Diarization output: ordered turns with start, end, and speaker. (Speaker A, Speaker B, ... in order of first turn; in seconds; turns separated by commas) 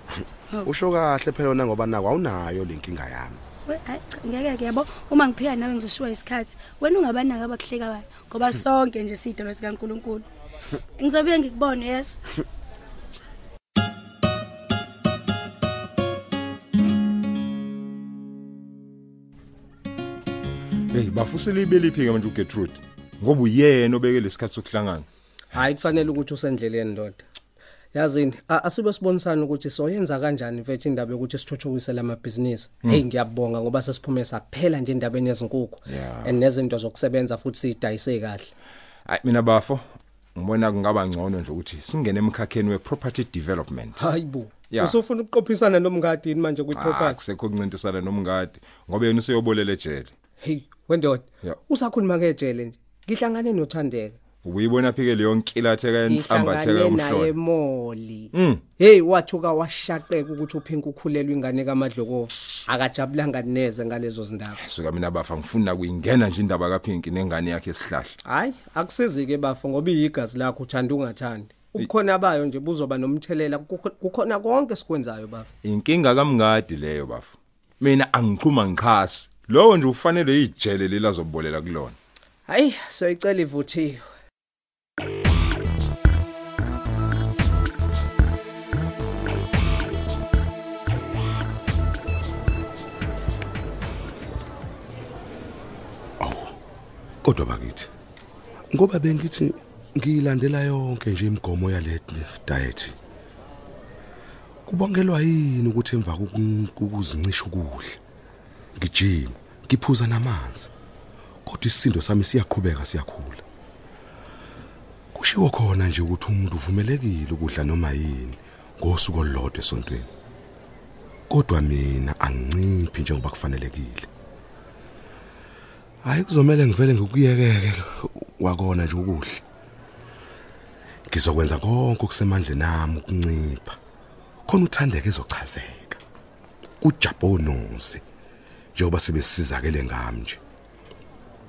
Speaker A: 0.6-3.4, Speaker B: 3.7-10.3, Speaker B: 11.0-12.2, Speaker C: 20.9-25.1, Speaker D: 25.5-27.2, Speaker D: 27.9-38.5, Speaker C: 35.9-36.4, Speaker C: 39.1-44.0, Speaker D: 44.0-47.2, Speaker C: 44.7-45.0, Speaker C: 46.7-50.1, Speaker D: 50.4-54.2, Speaker C: 54.4-57.4, Speaker D: 56.0-64.6, Speaker C: 58.3-58.6, Speaker C: 64.6-68.2, Speaker D: 68.2-75.5, Speaker C: 75.6-82.0, Speaker D: 82.5-84.0, Speaker A: 96.2-96.5, Speaker A: 97.2-97.9, Speaker A: 98.7-103.0, Speaker A: 104.7-108.0, Speaker A: 108.8-110.7, Speaker A: 111.5-113.4, Speaker A: 115.1-120.1, Speaker A: 121.3-124.1, Speaker A: 126.0-129.4, Speaker A: 131.1-133.8, Speaker A: 134.5-136.0, Speaker A: 136.8-138.0, Speaker A: 138.8-140.4